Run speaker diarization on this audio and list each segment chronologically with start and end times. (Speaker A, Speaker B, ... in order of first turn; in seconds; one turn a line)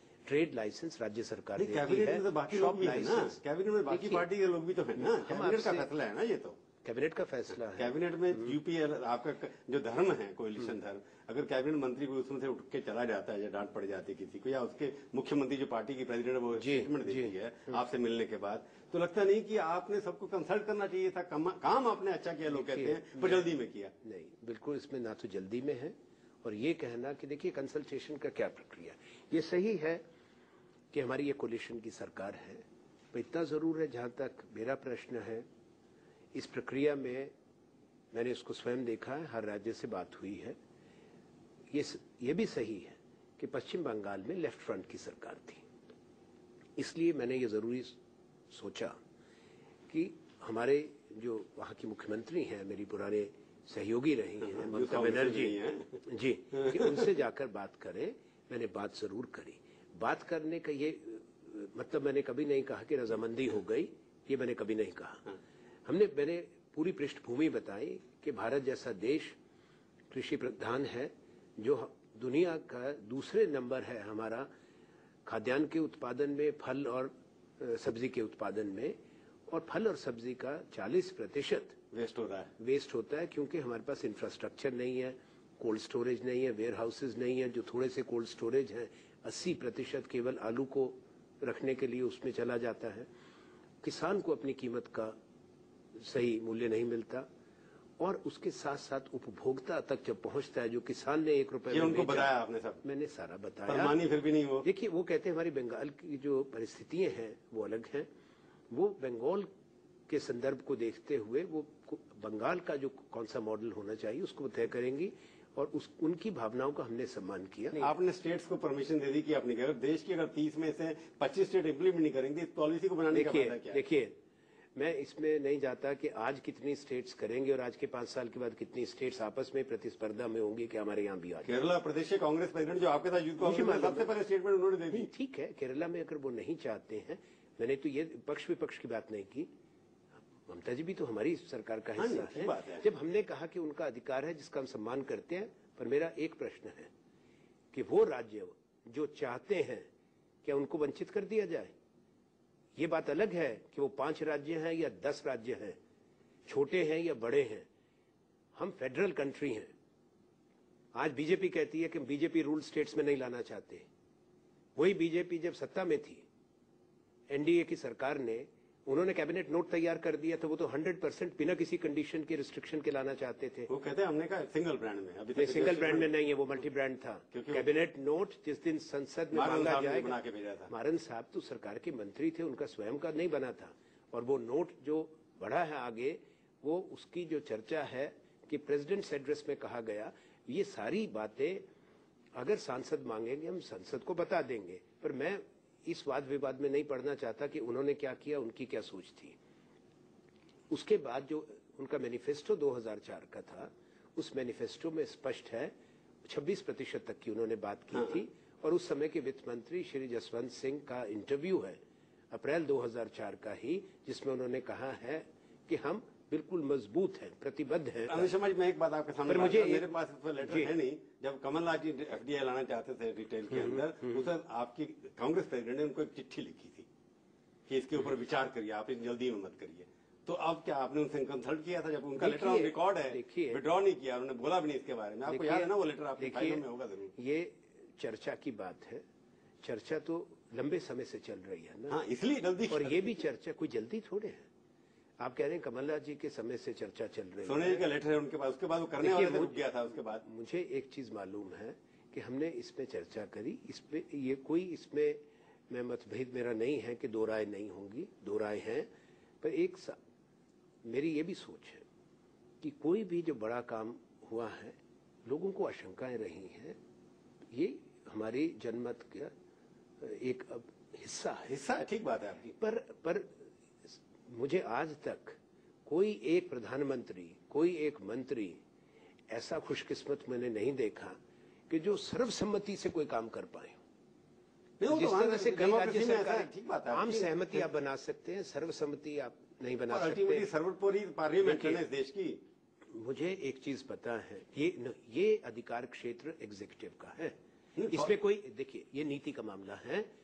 Speaker A: 0.3-4.3
Speaker B: 1.6-6.6
Speaker A: 5.0-5.9
Speaker A: 6.8-8.5
Speaker B: 7.8-23.9
Speaker A: 16.6-17.3
Speaker A: 22.5-23.5
Speaker A: 24.0-30.0
Speaker A: 30.9-35.5
Speaker A: 36.3-37.3
Speaker A: 38.1-40.6
Speaker A: 41.7-45.6
Speaker A: 46.8-48.0
Speaker A: 48.5-49.0
Speaker A: 49.9-65.3
Speaker B: 54.4-57.1
Speaker A: 65.9-69.4
Speaker A: 70.1-74.5
Speaker A: 75.3-78.9
Speaker A: 79.5-81.8
Speaker B: 81.9-82.5
Speaker A: 82.6-93.1
Speaker A: 93.8-95.2
Speaker A: 96.0-97.3
Speaker A: 98.0-102.3
Speaker B: 101.7-102.8
Speaker A: 102.8-104.0
Speaker B: 103.7-104.7
Speaker A: 104.6-108.1
Speaker A: 108.7-109.5
Speaker A: 110.1-117.9
Speaker B: 117.8-123.8
Speaker A: 123.1-124.2
Speaker A: 124.8-131.5
Speaker B: 131.4-135.1
Speaker A: 133.4-134.1
Speaker A: 134.9-139.5
Speaker A: 140.5-146.9
Speaker B: 142.0-142.9
Speaker A: 147.7-149.9
Speaker A: 150.4-151.7
Speaker A: 152.8-155.8
Speaker A: 156.5-157.7
Speaker A: 158.6-159.7
Speaker A: 160.9-163.9
Speaker A: 164.8-166.2
Speaker A: 167.3-173.7
Speaker B: 173.7-176.1
Speaker A: 175.3-191.6
Speaker B: 177.3-177.7
Speaker B: 179.3-180.7
Speaker A: 192.4-199.4
Speaker A: 200.7-205.7
Speaker A: 206.2-211.8
Speaker A: 212.3-218.3
Speaker B: 218.1-226.9
Speaker A: 219.3-220.7
Speaker B: 227.7-237.1
Speaker A: 232.2-233.6
Speaker A: 235.3-239.0
Speaker A: 239.6-242.0
Speaker B: 241.9-243.2
Speaker A: 242.7-244.5
Speaker A: 245.2-247.8
Speaker B: 247.4-250.2
Speaker A: 249.0-249.6
Speaker A: 250.2-258.9
Speaker A: 259.4-260.0
Speaker A: 260.9-261.9
Speaker A: 262.6-266.8
Speaker A: 267.5-269.3
Speaker A: 270.0-271.6
Speaker B: 271.5-272.6
Speaker A: 272.6-278.6
Speaker A: 279.3-281.2
Speaker A: 281.7-283.8
Speaker B: 284.8-287.6
Speaker A: 284.9-290.5
Speaker B: 289.9-292.4
Speaker A: 291.4-291.8
Speaker A: 292.9-297.4
Speaker B: 297.8-298.1
Speaker A: 297.9-300.1